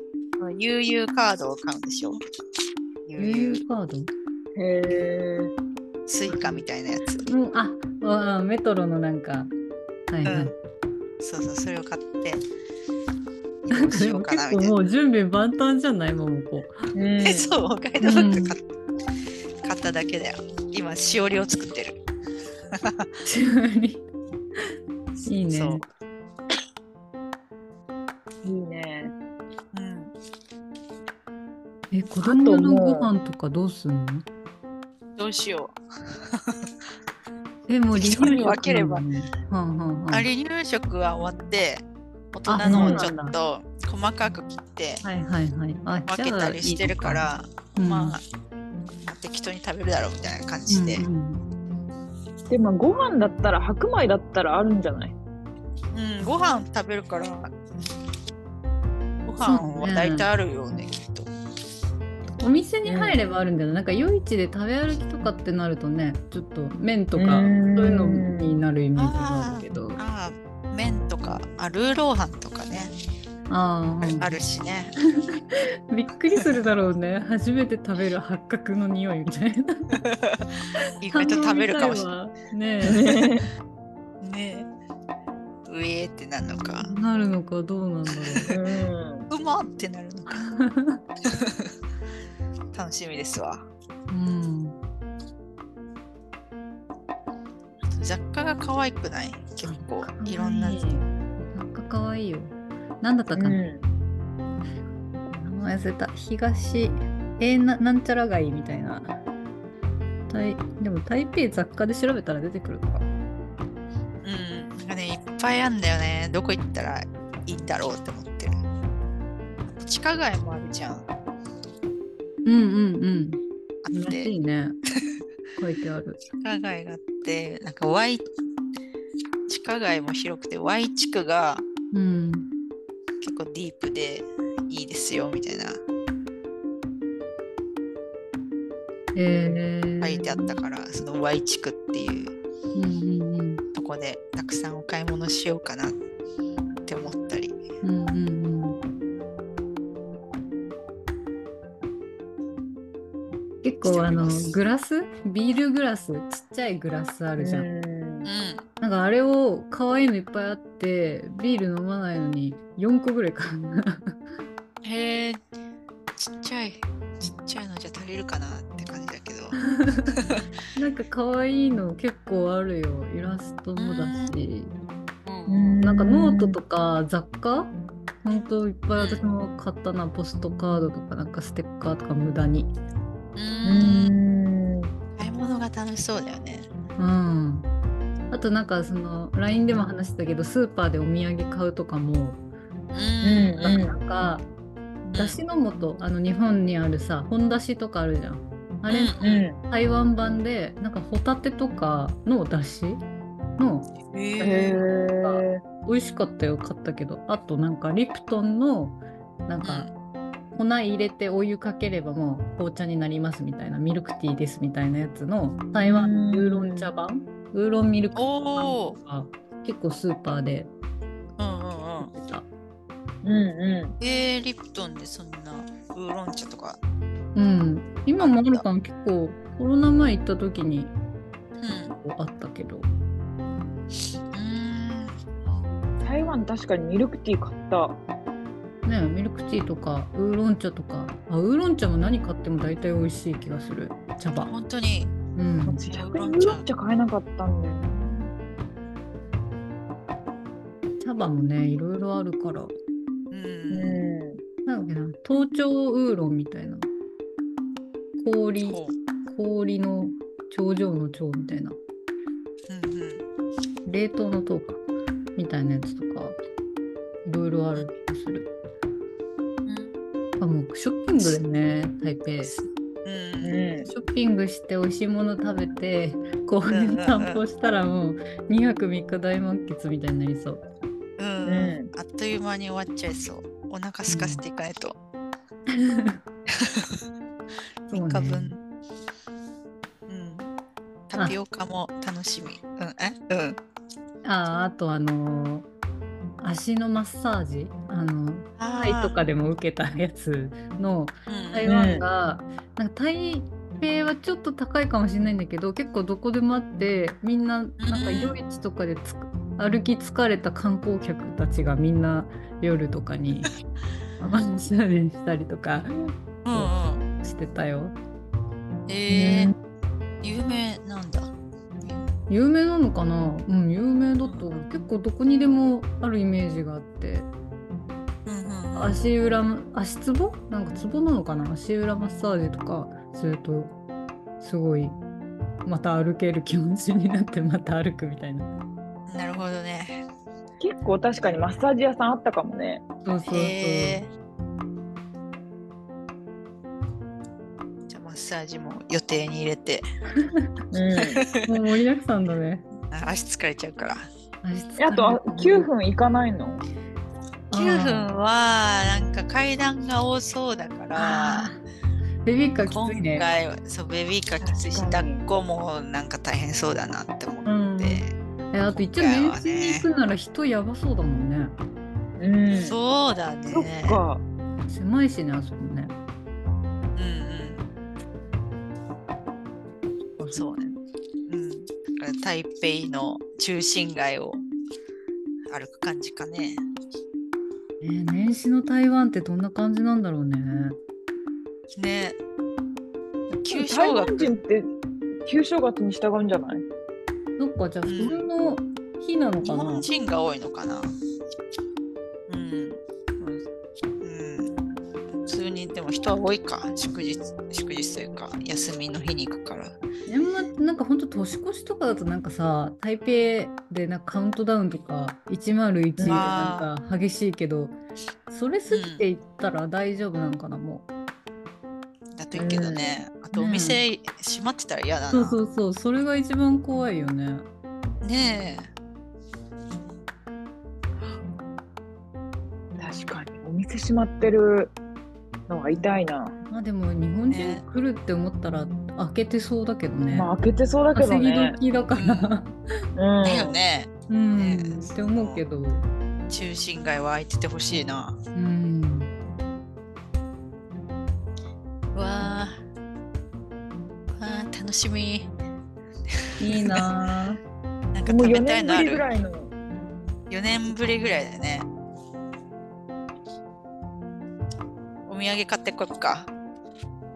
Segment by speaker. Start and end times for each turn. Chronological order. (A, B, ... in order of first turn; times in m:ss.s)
0:00.4-0:02.2 A
0:03.0-0:03.6 A
0:03.2-0:04.1 B
0:04.6-0:05.5 C
0:06.1-0:07.3 A
0:06.3-0:06.6 B
0:07.2-0:09.5 B
0:10.1-0:10.5 B
0:10.2-0:10.5 A
0:11.2-0:12.4 A
0:13.6-0:14.8 A
0:13.7-0:16.9 B
0:17.0-0:17.5 C
0:17.2-0:18.6 A
0:18.0-0:18.6 B
0:19.6-0:22.0 A
0:22.7-0:23.1 A
0:23.2-0:24.0 B
0:25.2-0:25.9 A
0:25.3-0:25.9 B
0:28.4-0:29.1 C
0:29.7-0:30.1 A
0:31.9-0:34.2 B
0:32.2-0:33.1 C
0:35.2-0:36.7 A
0:37.7-0:40.3 B
0:37.9-0:39.0 A
0:40.1-0:45.0 A
0:42.5-0:43.3 B
0:42.7-0:43.1 C
0:45.0-0:48.2 B
0:46.1-0:48.2 A
0:49.1-0:51.0 A
0:50.7-0:51.4 B
0:52.5-0:55.2 C
0:55.9-0:57.6 A
0:59.2-1:01.3 A
0:59.4-1:00.3 B
1:02.4-1:10.0 B
1:02.9-1:03.2 C
1:07.2-1:08.6 C
1:09.0-1:12.9 A
1:13.5-1:14.3 B
1:14.0-1:14.9 A
1:15.2-1:20.0 B
1:20.0-1:20.4 A
1:21.0-1:22.1 A
1:21.1-1:23.1 B
1:22.9-1:23.5 C
1:24.2-1:24.7 A
1:25.6-1:26.9 A
1:26.8-1:28.6 B
1:28.1-1:28.6 A
1:28.5-1:29.3 C
1:29.3-1:30.4 A
1:30.3-1:31.0 B
1:31.3-1:31.7 A
1:32.7-1:33.7 A
1:34.1-1:34.8 B
1:37.8-1:40.9 A
1:39.6-1:43.6 B
1:43.3-1:43.9 C
1:45.3-1:49.2 B
1:50.3-1:53.0 B
1:54.2-1:58.6 A
1:59.7-2:01.1 A
2:02.4-2:03.4 B
2:03.8-2:04.3 A
2:03.9-2:04.8 B
2:05.6-2:06.2 B
2:06.4-2:08.3 A
2:09.5-2:11.6 A
2:11.9-2:12.5 B
2:13.2-2:15.8 A
2:19.1-2:20.6 B
2:20.0-2:22.4 A
2:22.8-2:23.6 B
2:23.7-2:26.0 A
2:26.9-2:27.6 A
2:27.8-2:28.8 B
2:33.6-2:37.7 B
2:33.8-2:34.6 A
2:37.4-2:38.3 C
2:38.2-2:38.6 A
2:38.8-2:44.2 B
2:44.8-2:45.4 A
2:46.2-2:49.6 A
2:49.6-2:54.7 B
2:50.2-2:50.4 A
2:53.8-2:54.3 A
2:55.2-2:55.8 A
2:55.5-2:56.6 C
2:55.8-3:02.7 B
2:59.0-2:59.3 A
3:03.4-3:04.2 A
3:03.6-3:04.9 C
3:05.2-3:06.7 A
3:07.0-3:07.7 B
3:08.3-3:12.4 B
3:12.9-3:13.8 A
3:13.2-3:14.0 C
3:13.6-3:14.5 B
3:15.1-3:23.0 B
3:15.1-3:15.4 A
3:18.9-3:19.5 A
3:19.2-3:19.6 C
3:23.6-3:23.9 B
3:24.0-3:24.8 A
3:24.4-3:25.6 C
3:25.2-3:29.9 B
3:29.6-3:29.9 A
3:30.5-3:40.7 B
3:35.9-3:36.9 C
3:38.2-3:39.0 A
3:41.4-3:42.1 A
3:42.0-3:42.5 B
3:43.2-3:44.0 C
3:44.0-3:46.8 A
3:47.4-3:50.9 B
3:48.2-3:48.6 A
3:51.6-3:52.0 A
3:51.7-3:52.9 B
3:54.3-3:55.2 A
3:56.0-3:58.0 C
3:58.9-4:04.5 B
4:04.4-4:05.2 A
4:05.4-4:05.8 B
4:05.7-4:08.3 C
4:05.9-4:06.6 A
4:11.0-4:12.7 B
4:13.3-4:14.0 A
4:13.7-4:14.4 C
4:14.7-4:16.9 B
4:18.2-4:21.8 B
4:18.6-4:19.0 A
4:22.7-4:23.2 A
4:23.9-4:24.8 B
4:25.4-4:26.4 B
4:27.2-4:28.5 B
4:29.7-4:29.9 A
4:30.4-4:32.5 B
4:32.4-4:33.6 A
4:33.4-4:33.9 C
4:33.9-4:40.6 B
4:36.7-4:37.4 A
4:41.2-4:45.0 A
4:41.5-4:41.9 C
4:44.1-4:44.4 B
4:45.7-4:46.2 B
4:46.6-4:47.0 A
4:47.9-4:48.6 A
4:47.9-4:48.6 B
4:50.1-4:50.5 A
4:51.1-4:53.6 A
4:54.2-4:55.7 B
4:56.4-5:13.5 B
4:58.6-4:59.2 A
5:01.3-5:01.9 A
5:01.7-5:02.0 C
5:07.8-5:08.4 A
5:14.2-5:18.0 B
5:16.4-5:17.1 A
5:18.9-5:19.5 A
5:19.1-5:19.6 C
5:20.2-5:21.3 A
5:22.3-5:27.3 B
5:24.2-5:24.5 A
5:28.3-5:29.1 A
5:28.7-5:33.8 B
5:34.4-5:35.0 B
5:35.6-5:38.5 B
5:39.1-5:40.0 A
5:40.6-5:42.8 C
5:43.0-5:44.0 B
5:43.3-5:44.1 A
5:47.9-5:49.8 A
5:50.2-5:50.5 B
5:50.7-5:51.2 C
5:51.0-5:51.5 A
5:51.4-5:52.7 B
5:52.9-5:54.1 A
5:54.4-5:55.7 B
5:54.8-5:56.6 C
5:57.5-5:58.1 B
5:57.5-6:01.5 A
6:00.9-6:01.6 B
6:02.3-6:03.2 B
6:02.7-6:08.2 A
6:04.4-6:05.2 C
6:07.5-6:11.6 B
6:08.7-6:09.9 A
6:12.2-6:12.8 C
6:12.6-6:14.0 A
6:13.5-6:14.2 C
6:14.7-6:16.0 B
6:17.0-6:17.6 A
6:20.2-6:20.5 B
6:20.3-6:24.4 A
6:25.5-6:26.6 A
6:27.8-6:30.8 B
6:31.7-6:32.2 A
6:33.3-6:34.4 A
6:33.5-6:34.7 C
6:35.2-6:36.6 C
6:37.4-6:39.9 B
6:37.8-6:38.3 A
6:39.4-6:40.9 A
6:42.3-6:43.4 A
6:44.0-6:44.5 A
6:45.2-6:49.7 A
6:50.1-6:57.8 B
6:56.0-6:56.2 C
6:56.1-6:56.7 A
6:58.3-7:00.9 B
6:58.7-6:59.1 A
7:02.2-7:05.4 A
7:02.4-7:03.0 C
7:03.3-7:03.8 B
7:05.1-7:07.5 B
7:08.0-7:08.7 A
7:12.8-7:14.7 C
7:15.5-7:16.4 C
7:16.5-7:20.3 B
7:17.3-7:17.6 A
7:20.1-7:21.6 C
7:21.0-7:22.5 B
7:21.9-7:22.3 A
7:23.0-7:23.6 C
7:23.2-7:25.4 A
7:24.1-7:25.9 B
7:26.3-7:28.2 A
7:28.4-7:29.1 B
7:31.9-7:32.6 A
7:34.1-7:35.3 A
7:36.4-7:37.4 B
7:36.4-7:36.8 A
7:37.9-7:39.0 A
7:38.1-7:39.5 C
7:40.3-7:41.7 A
7:45.1-7:46.3 A